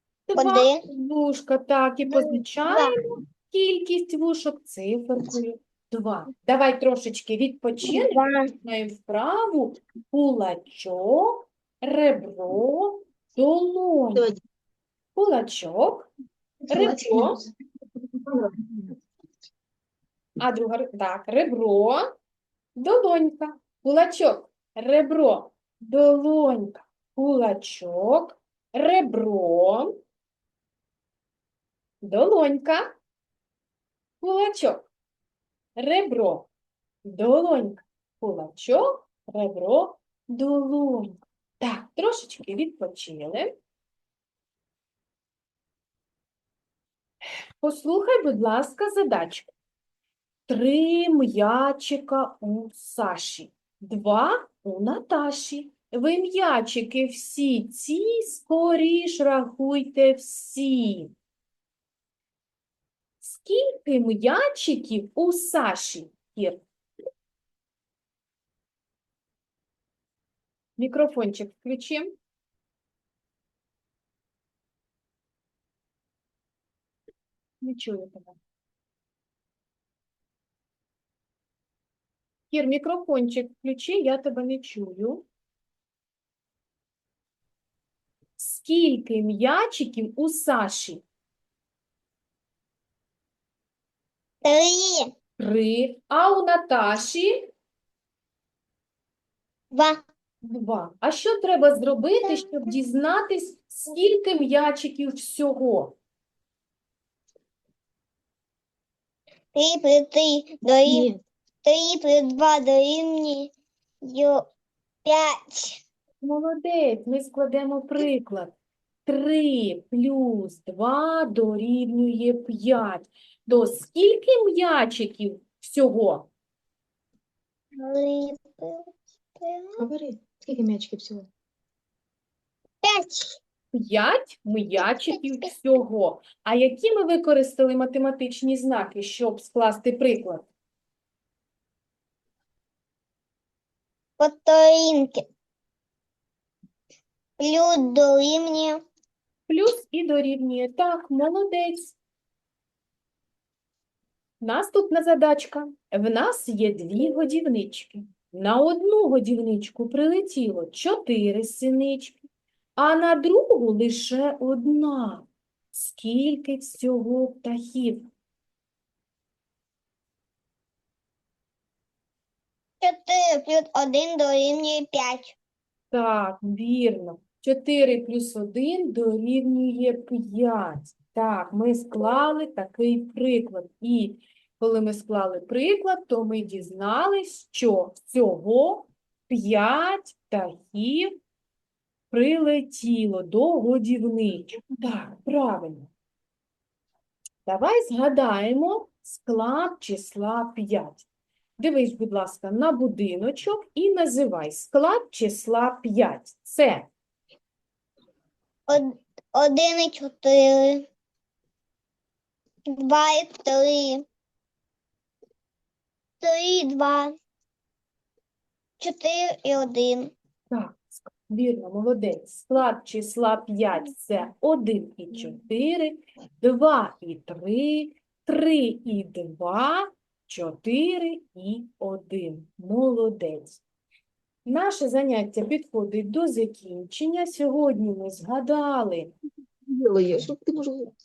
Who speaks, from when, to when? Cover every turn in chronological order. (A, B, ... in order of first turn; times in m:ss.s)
0:00.3-0:14.3 A
0:00.3-0:00.8 B
0:02.1-0:03.0 B
0:07.8-0:08.5 B
0:14.1-0:14.4 C
0:15.1-0:16.1 A
0:16.7-0:17.4 C
0:16.7-0:17.4 A
0:18.0-0:18.9 C
0:20.4-0:22.0 A
0:22.8-0:30.0 A
0:32.0-0:32.9 A
0:34.2-0:34.9 A
0:35.8-0:36.5 A
0:37.0-0:43.5 A
0:47.6-0:49.5 A
0:50.5-1:01.1 A
1:03.2-1:06.6 A
1:10.8-1:12.1 A
1:17.6-1:18.4 A
1:22.5-1:25.2 A
1:28.4-1:31.0 A
1:34.4-1:35.1 B
1:35.4-1:37.5 A
1:39.7-1:40.0 B
1:40.4-1:46.0 A
1:49.5-1:51.1 B
1:50.8-1:51.2 C
1:51.6-1:54.4 B
1:55.0-1:55.8 B
1:56.2-1:58.5 A
1:59.0-2:06.3 A
2:07.8-2:09.8 B
2:09.8-2:11.3 C
2:12.8-2:13.4 B
2:13.7-2:20.5 A
2:14.9-2:15.3 B
2:24.2-2:25.2 B
2:27.4-2:28.8 B
2:29.5-2:32.0 A
2:34.4-2:42.2 A
2:42.8-2:48.1 A
2:52.8-2:55.4 B
2:55.9-3:11.1 A
3:12.1-3:15.9 A
3:17.4-3:21.0 A
3:21.6-3:26.9 A
3:28.7-3:30.8 B
3:32.7-3:34.0 B
3:36.2-3:37.1 B
3:38.8-3:40.1 B
3:40.5-3:53.6 A
3:54.4-3:59.1 A
3:59.6-4:00.9 C